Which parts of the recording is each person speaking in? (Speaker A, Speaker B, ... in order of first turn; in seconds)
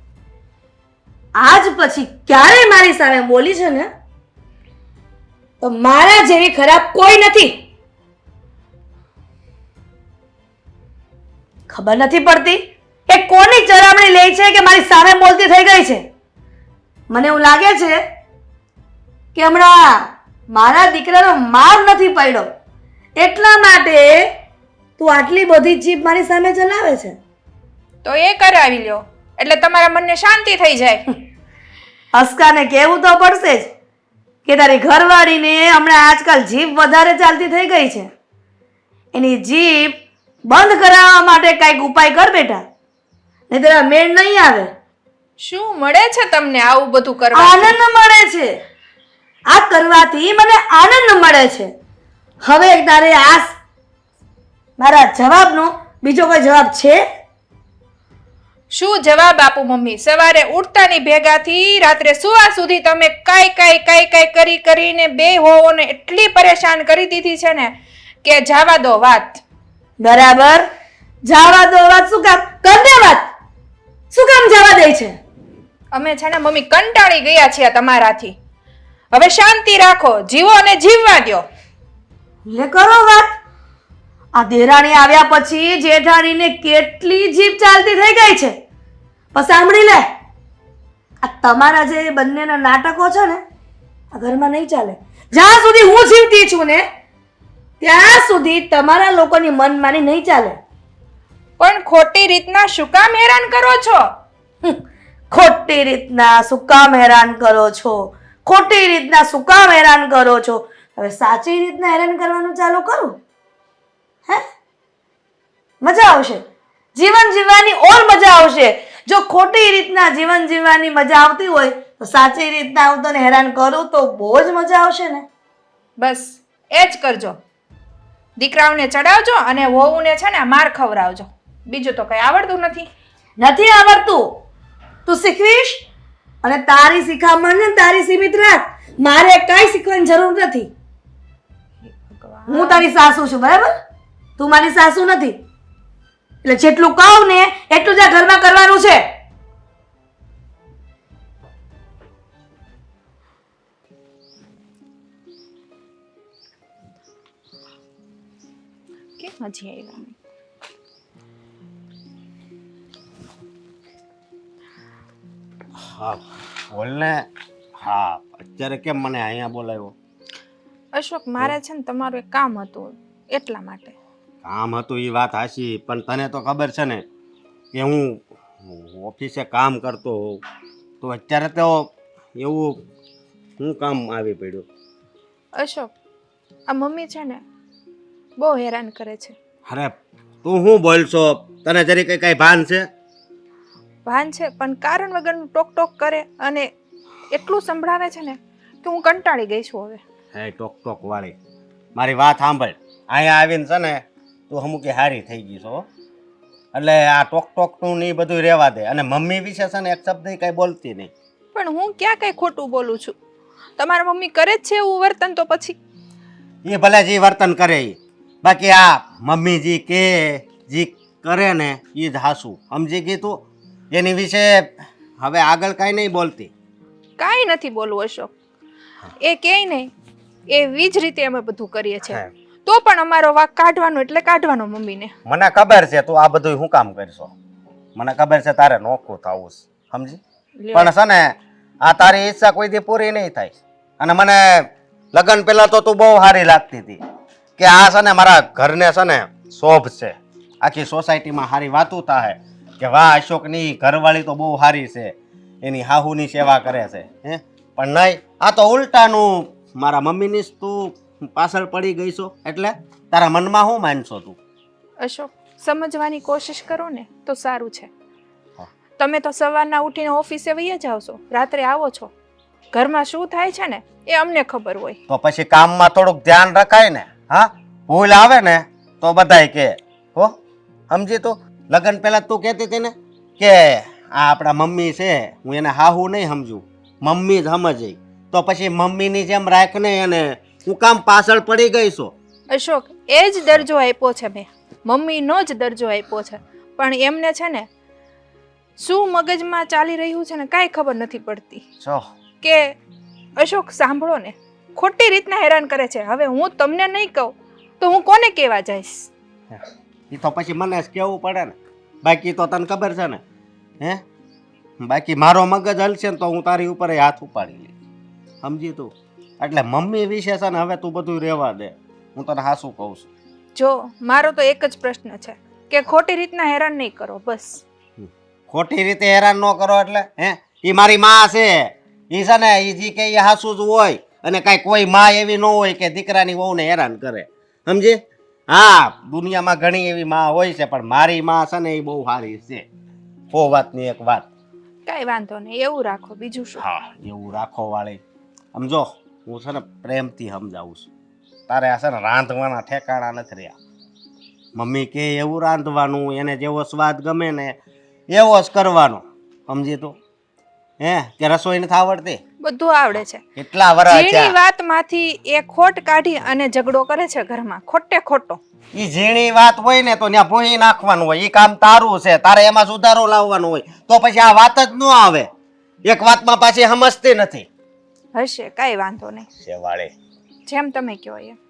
Speaker A: 1.4-3.9, 5.6-7.6, 11.7-16.0, 17.1-18.0, 19.4-22.5, 23.2-24.2, 25.0-27.1, 32.1-33.7, 34.5-38.1, 39.1-40.0, 40.5-42.6, 43.5-44.7, 47.3-48.5, 49.5-51.7, 52.4-53.5, 54.8-57.0, 70.0-70.6, 71.2-73.3, 74.1-75.1, 82.5-83.3, 84.3-88.5, 89.3-90.1, 91.2-93.4, 94.1-96.8, 97.8-100.6, 105.3-113.2, 115.8-116.4, 117.0-125.2, 133.4-134.4, 135.1-135.8, 136.4-140.7, 142.5-143.7, 144.4-145.4, 146.4-149.0
Speaker B: 28.0-31.0, 45.4-47.7, 58.7-69.4, 75.9-78.3, 79.1-81.5, 101.6-104.0, 126.0-127.4, 128.4-132.9, 141.8-142.9, 159.2-160.1, 170.9-173.9, 185.6-185.9, 186.7-187.4, 188.4-189.3, 194.1-196.7, 197.3-200.0, 211.5-213.2, 213.8-215.8, 227.2-228.3, 229.2-229.9, 230.5-235.1, 240.6-240.9, 265.0-267.9, 269.0-272.1, 272.7-275.0, 292.5-297.7, 298.8-301.6, 302.4-302.8, 303.4-309.1, 323.6-327.6, 344.9-346.6, 362.4-363.2, 363.9-368.4, 378.1-379.3, 380.5-381.4
Speaker C: 165.8-166.2, 166.7-167.3, 167.8-169.9, 174.4-177.0, 177.7-180.4, 181.0-182.8, 183.6-184.7, 189.7-192.9, 200.3-201.3, 202.0-205.9, 206.7-211.1, 216.7-226.5, 235.3-237.3, 238.0-240.2, 240.7-247.0, 247.6-264.4, 275.1-280.4, 280.9-292.1, 309.5-313.2, 314.8-317.7, 318.4-323.1, 328.0-342.7, 343.3-344.3, 346.6-348.0, 348.6-350.9, 351.5-353.6, 354.6-357.6, 358.1-360.0, 360.8-362.2, 363.4-364.4, 368.8-375.3, 375.9-377.5, 379.4-379.9